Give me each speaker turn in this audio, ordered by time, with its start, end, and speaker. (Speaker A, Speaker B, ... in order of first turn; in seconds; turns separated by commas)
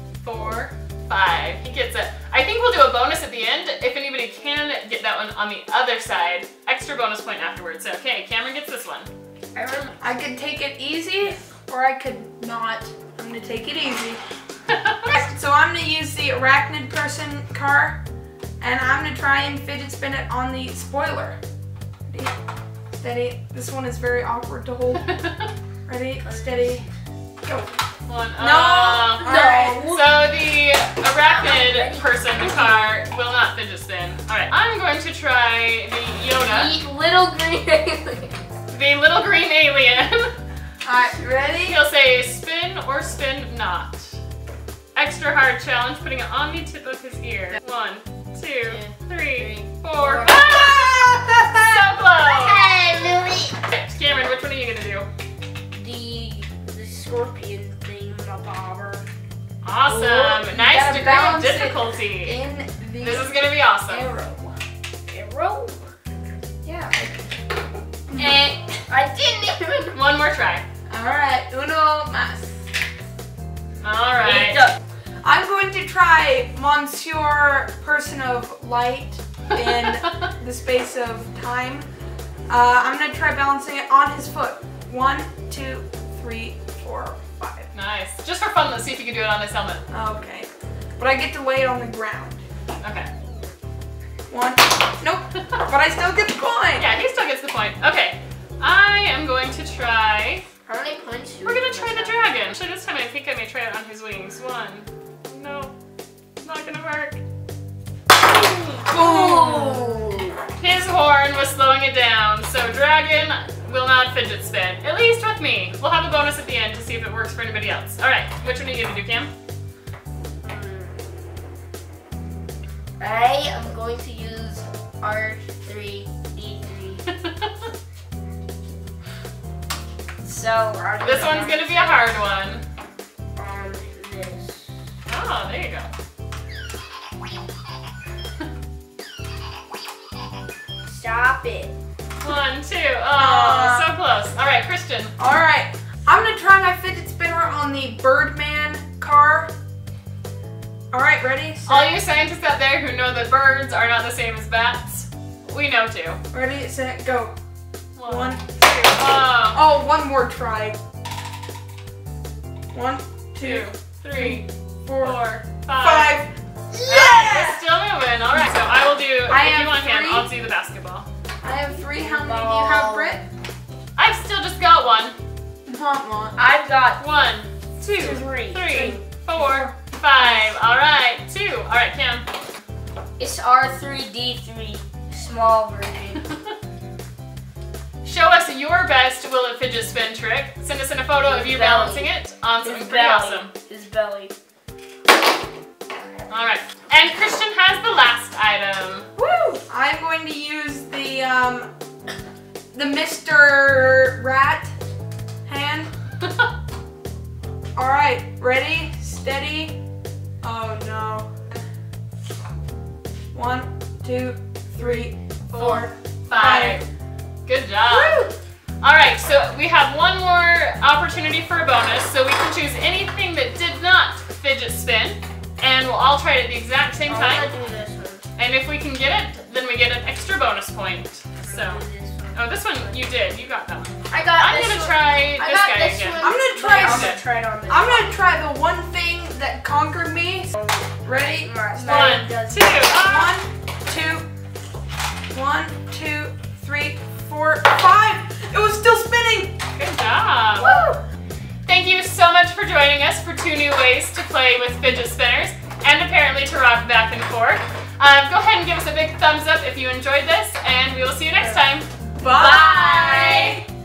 Speaker A: 0.2-9.1, Speaker B: 9.5-10.0, Speaker C: 10.0-14.2, Speaker A: 14.7-15.1, Speaker C: 15.1-18.0, Speaker C: 18.6-21.4, Speaker C: 22.1-22.3, Speaker C: 23.0-25.2, Speaker A: 25.1-25.4, Speaker C: 25.9-26.9, Speaker B: 26.2-26.9, Speaker C: 27.4-27.8, Speaker A: 28.1-36.8, Speaker C: 28.4-29.9, Speaker B: 29.2-30.2, Speaker B: 31.2-33.0, Speaker B: 36.4-38.3, Speaker A: 38.7-40.3, Speaker C: 40.8-41.8, Speaker A: 41.6-44.2, Speaker A: 44.9-52.8, Speaker B: 48.6-51.1, Speaker B: 52.2-53.6, Speaker A: 53.6-55.1, Speaker B: 55.7-59.1, Speaker A: 59.6-62.4, Speaker C: 59.9-64.6, Speaker A: 63.0-64.1, Speaker B: 65.1-65.9, Speaker C: 66.6-67.2, Speaker C: 68.1-68.4, Speaker B: 68.1-70.0, Speaker A: 69.9-70.7, Speaker C: 70.9-72.6, Speaker A: 73.8-74.7, Speaker C: 75.2-81.9, Speaker C: 82.5-87.7, Speaker A: 87.7-89.8, Speaker C: 89.9-92.4, Speaker A: 92.8-93.1, Speaker C: 94.3-96.9, Speaker A: 96.8-100.4, Speaker B: 100.7-102.3, Speaker A: 101.4-105.7, Speaker A: 106.4-107.2, Speaker B: 108.6-110.4, Speaker C: 108.9-110.0, Speaker A: 110.6-119.3, Speaker B: 120.4-121.1, Speaker B: 123.0-127.1, Speaker A: 127.1-127.7, Speaker B: 130.2-132.2, Speaker A: 131.0-132.6, Speaker B: 133.4-134.8, Speaker A: 135.1-135.9, Speaker B: 140.8-141.8, Speaker A: 142.2-145.1, Speaker C: 143.1-143.9, Speaker C: 145.2-149.5, Speaker C: 150.9-152.0, Speaker A: 151.7-156.2, Speaker C: 156.3-157.3, Speaker A: 157.9-159.6, Speaker C: 158.1-158.8, Speaker C: 159.4-160.8, Speaker C: 162.7-165.2, Speaker A: 163.4-166.2, Speaker C: 165.7-166.3, Speaker A: 166.8-171.1, Speaker C: 166.9-167.6, Speaker C: 169.3-170.3, Speaker C: 171.4-173.2, Speaker B: 171.7-173.2, Speaker A: 173.9-175.2, Speaker C: 175.7-176.4, Speaker B: 176.4-177.0, Speaker A: 177.0-182.3, Speaker B: 177.9-179.0, Speaker C: 178.7-180.5, Speaker B: 183.2-186.2, Speaker A: 188.0-193.5, Speaker B: 191.2-194.3, Speaker A: 196.3-199.1, Speaker C: 199.2-201.7, Speaker C: 202.7-204.7, Speaker C: 205.4-205.9, Speaker C: 207.8-209.8, Speaker C: 210.4-211.4, Speaker C: 213.3-216.8, Speaker A: 215.5-216.8, Speaker A: 217.4-218.3, Speaker B: 217.9-218.3, Speaker A: 218.8-227.5, Speaker B: 227.1-228.2, Speaker A: 228.4-231.8, Speaker B: 231.4-233.1, Speaker A: 232.3-237.2, Speaker B: 234.1-238.1, Speaker C: 236.2-240.5, Speaker B: 240.5-242.9, Speaker C: 241.0-242.2, Speaker A: 241.8-243.4, Speaker C: 242.9-244.3, Speaker C: 245.3-249.6, Speaker A: 249.8-250.8, Speaker B: 250.6-251.0, Speaker C: 250.6-251.0, Speaker A: 251.7-261.9, Speaker C: 262.2-263.6, Speaker B: 262.2-263.6